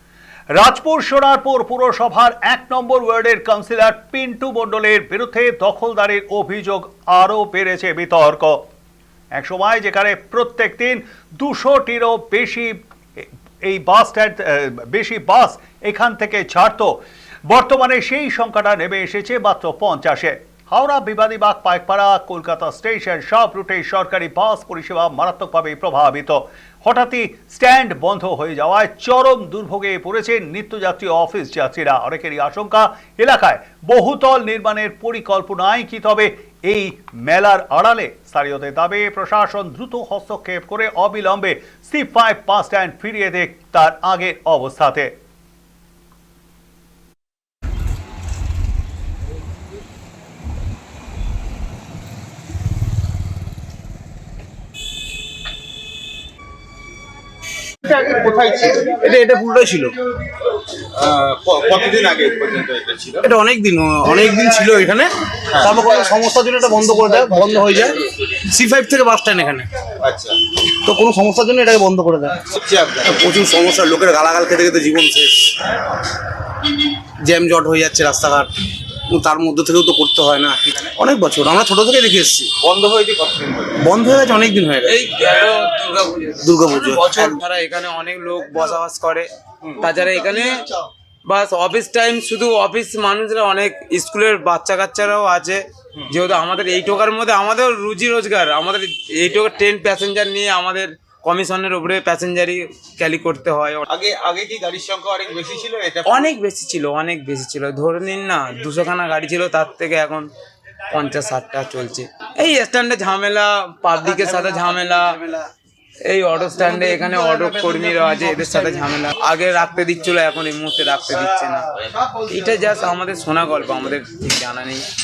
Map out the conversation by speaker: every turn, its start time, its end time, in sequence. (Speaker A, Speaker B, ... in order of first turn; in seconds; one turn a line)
Speaker A: 0.6-8.6
Speaker A: 9.3-45.1
Speaker B: 57.9-58.9
Speaker C: 58.8-60.0
Speaker B: 60.9-63.2
Speaker C: 63.2-69.7
Speaker B: 70.0-70.4
Speaker C: 70.6-72.4
Speaker B: 72.5-73.2
Speaker C: 73.0-75.7
Speaker C: 77.2-78.5
Speaker C: 79.1-82.5
Speaker B: 82.6-83.9
Speaker C: 83.8-85.1
Speaker D: 84.8-90.7
Speaker C: 86.4-87.4
Speaker D: 91.3-103.9
Speaker B: 103.9-106.3
Speaker D: 106.0-110.3
Speaker D: 110.9-115.2
Speaker D: 116.0-124.8